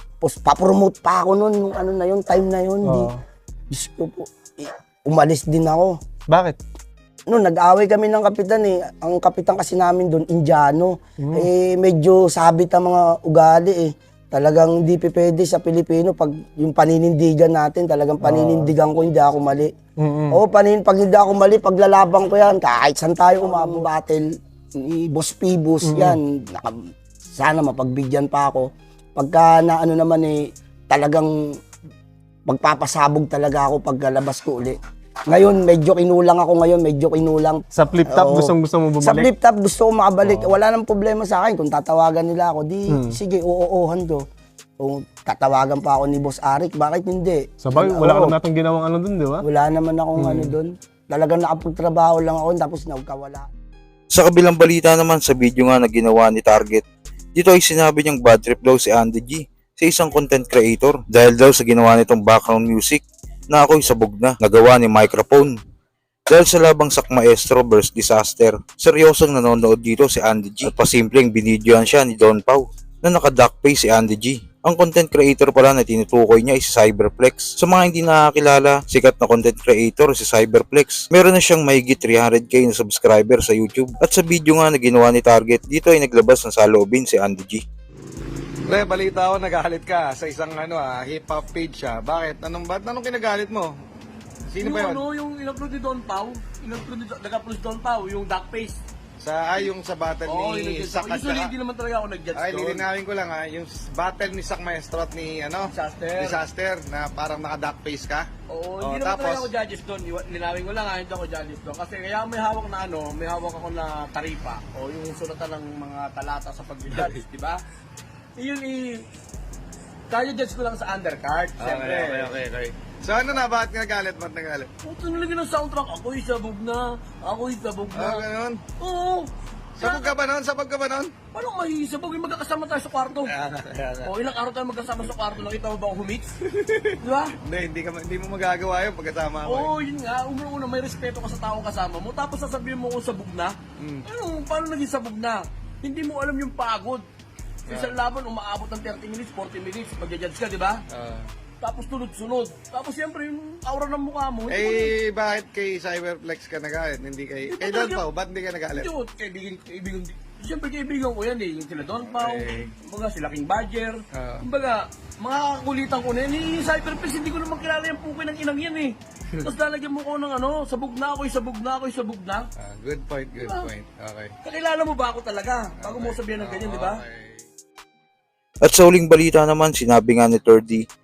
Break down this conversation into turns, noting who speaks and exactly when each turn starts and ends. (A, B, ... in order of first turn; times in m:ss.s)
0:00.2-0:03.1 A
0:02.8-0:03.2 B
0:03.7-0:06.0 A
0:06.3-0:06.6 B
0:07.3-0:19.7 A
0:11.2-0:11.5 B
0:18.2-0:18.7 B
0:20.0-0:20.4 B
0:20.3-0:31.6 A
0:25.8-0:26.2 B
0:32.5-0:34.8 A
0:35.3-0:44.2 A
0:37.7-0:39.3 B
0:40.2-0:40.5 B
0:42.9-0:43.2 B
0:44.8-0:48.4 A
0:47.6-0:49.4 B
0:49.4-0:53.5 A
0:50.2-0:50.5 B
0:54.1-0:56.8 C
0:57.4-1:05.5 C
1:06.3-1:27.6 C
1:28.7-1:33.7 D
1:34.5-1:35.0 D
1:34.6-1:38.8 E
1:39.2-1:41.5 D
1:40.3-1:42.8 E
1:42.3-1:48.3 D
1:45.7-1:46.4 E
1:48.5-1:57.6 E
1:48.8-1:49.5 D
1:58.4-1:59.0 E
2:00.1-2:02.4 E
2:01.6-2:04.7 D
2:04.8-2:08.3 E
2:07.9-2:08.6 D
2:08.8-2:09.3 E
2:09.8-2:11.1 D
2:09.8-2:10.2 E
2:11.3-2:13.3 E
2:13.2-2:14.1 D
2:14.0-2:17.4 E
2:17.4-2:19.7 D
2:19.4-2:27.0 E
2:23.8-2:24.0 D
2:27.7-2:27.9 D
2:27.7-2:30.8 E
2:30.9-2:31.3 D
2:31.6-2:34.9 E
2:34.5-2:38.9 D
2:37.5-2:38.0 E
2:38.7-2:52.5 E
2:42.0-2:42.7 D
2:44.1-2:44.4 D
2:52.6-2:54.4 D
2:53.4-2:53.7 E
2:54.4-2:57.0 E
2:55.8-2:57.4 D
2:58.6-3:00.8 C